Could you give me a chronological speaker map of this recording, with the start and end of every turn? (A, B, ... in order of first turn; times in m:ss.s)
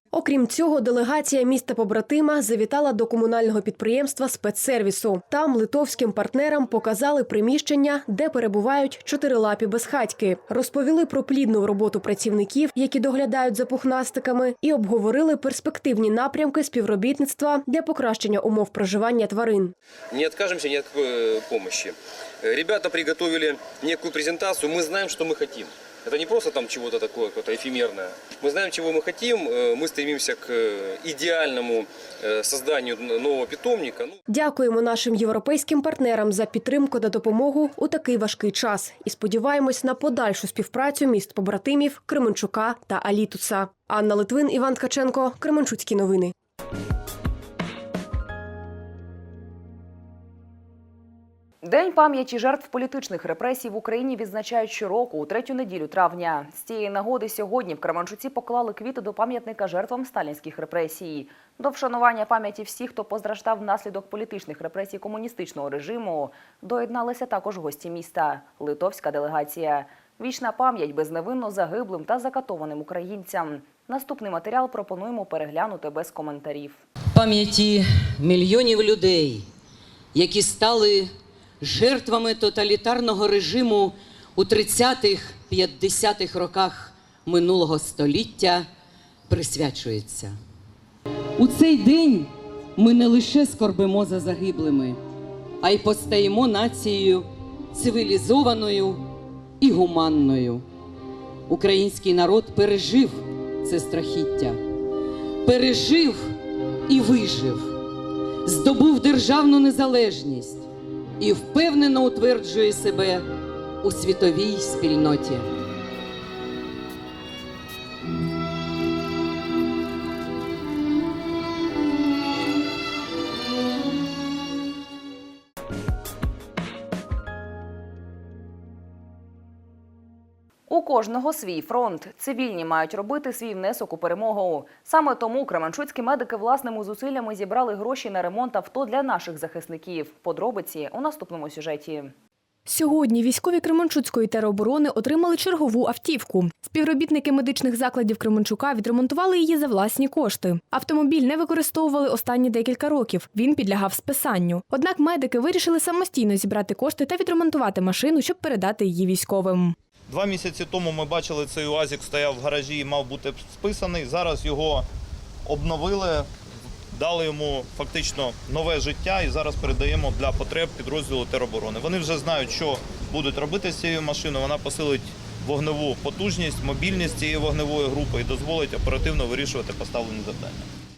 0:00.1-0:19.7 A
0:20.1-0:34.1 B
0:34.3-0:46.3 A
0:51.6-1:16.8 C
1:17.1-1:19.5 D
1:20.1-1:28.7 D
1:29.3-1:30.4 D
1:31.4-1:35.0 D
1:35.6-1:39.0 D
1:39.6-1:40.6 D
1:41.5-1:44.6 D
1:45.4-1:46.3 D
1:46.9-1:47.7 D
1:48.4-1:50.7 D
1:51.2-1:53.2 D
1:53.8-1:55.5 D
2:10.7-2:22.1 C
2:22.6-2:39.8 E
2:40.1-2:44.8 F
2:45.4-2:46.3 F
2:46.9-3:00.7 F